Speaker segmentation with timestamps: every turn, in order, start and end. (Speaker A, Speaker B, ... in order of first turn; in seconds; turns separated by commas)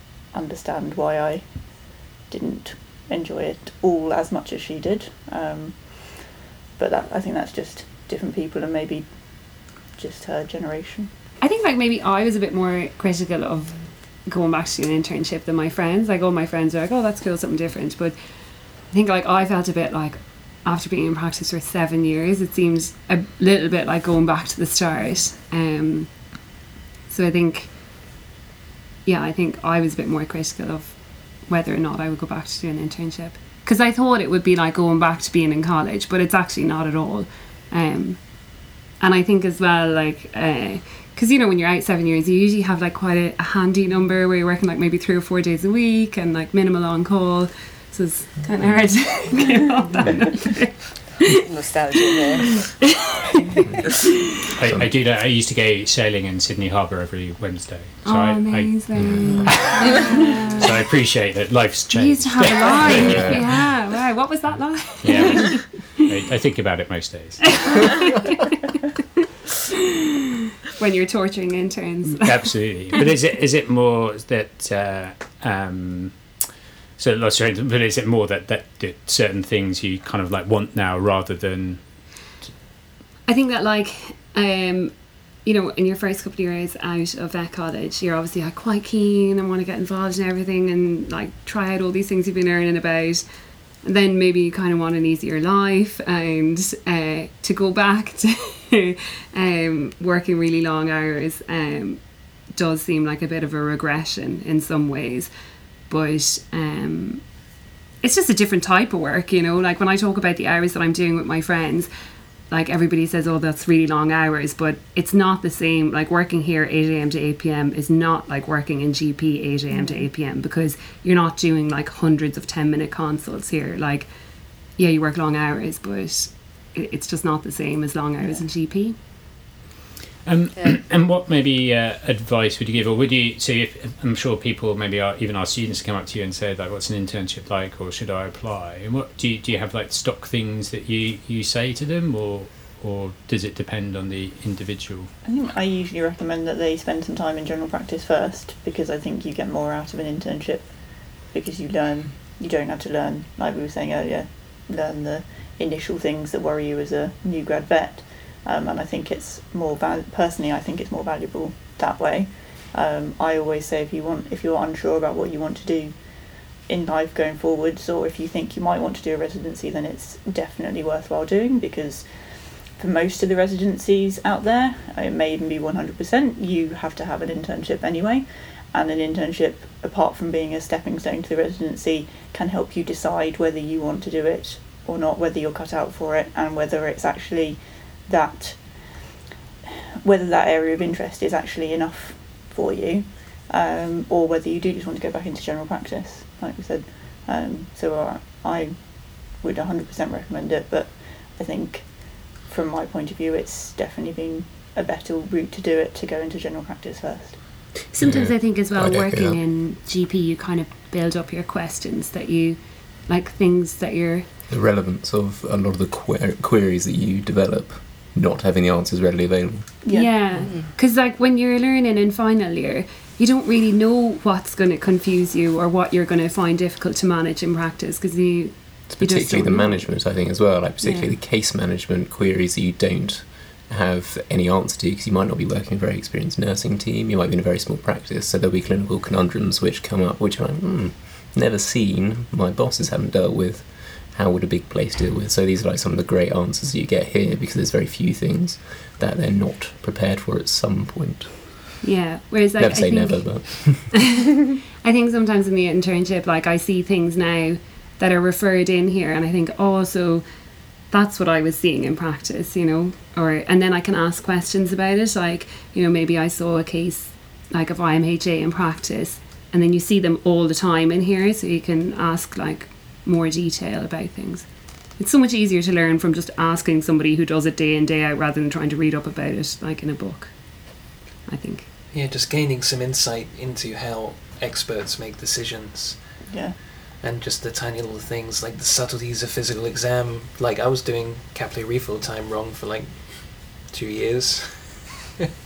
Speaker A: 0.3-11.1, Speaker B: 11.4-26.5, Speaker B: 27.1-27.8, Speaker B: 29.1-51.3, Speaker C: 51.5-52.7, Speaker B: 52.8-53.6, Speaker D: 54.6-60.0, Speaker B: 58.0-60.8, Speaker E: 59.0-59.3, Speaker D: 60.6-63.8, Speaker B: 61.9-66.1, Speaker E: 62.8-63.7, Speaker D: 64.5-67.9, Speaker B: 67.6-68.3, Speaker B: 70.8-73.0, Speaker D: 72.0-76.4, Speaker D: 77.0-82.1, Speaker B: 83.3-105.3, Speaker B: 105.8-107.4, Speaker B: 108.0-111.9, Speaker B: 112.5-129.0, Speaker A: 119.7-120.1, Speaker D: 130.2-145.1, Speaker C: 130.6-130.8, Speaker A: 145.2-189.1, Speaker A: 190.0-207.8, Speaker B: 207.9-214.3, Speaker E: 208.0-209.4, Speaker E: 214.5-219.8, Speaker A: 219.8-220.2, Speaker B: 219.9-230.3, Speaker C: 220.3-220.7, Speaker E: 228.9-251.7, Speaker B: 230.8-231.2, Speaker B: 251.8-254.2, Speaker E: 252.6-254.1, Speaker B: 254.8-281.7, Speaker F: 281.9-286.2, Speaker A: 286.3-286.6, Speaker F: 287.0-295.1